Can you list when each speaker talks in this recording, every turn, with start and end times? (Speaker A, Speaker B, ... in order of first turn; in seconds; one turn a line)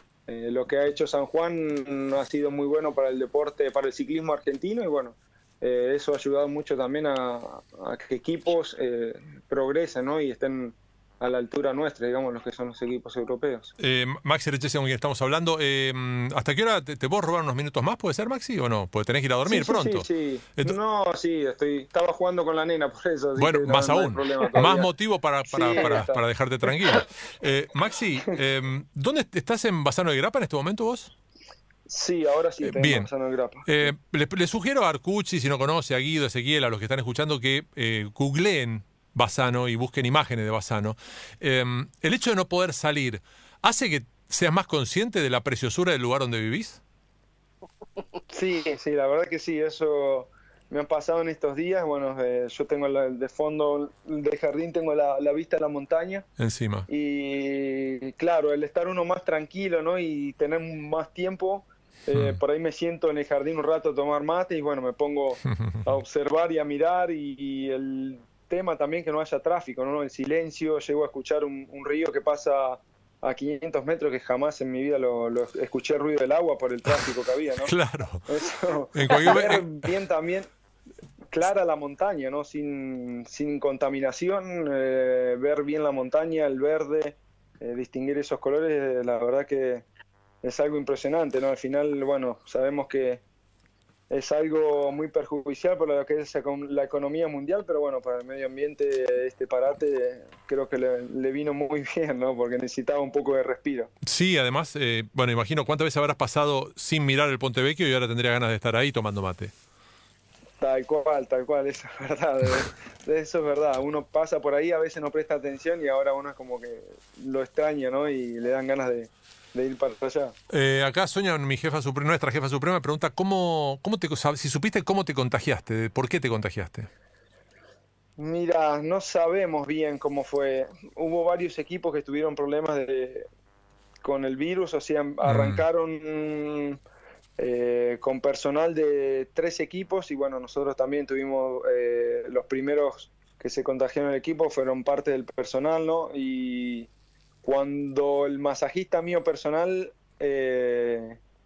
Speaker A: 0.3-13.7
Speaker B: 13.8-20.8
Speaker A: 19.4-24.9
Speaker B: 23.4-31.1
Speaker A: 25.5-26.2
Speaker A: 31.9-33.7
Speaker B: 32.6-33.1
Speaker B: 33.6-46.8
Speaker A: 48.3-56.3
Speaker B: 56.4-56.9
Speaker A: 56.9-77.7
Speaker B: 62.1-62.4
Speaker B: 65.5-65.9
Speaker B: 77.6-78.2
Speaker A: 78.2-80.5
Speaker B: 78.9-79.9
Speaker A: 81.3-89.8
Speaker A: 90.4-93.2
Speaker A: 94.1-103.9
Speaker B: 104.0-109.5
Speaker A: 110.6-120.3
Speaker B: 120.5-126.9
Speaker A: 128.2-133.3
Speaker A: 134.0-136.8
Speaker B: 135.2-135.6
Speaker A: 137.4-146.9
Speaker A: 147.4-151.2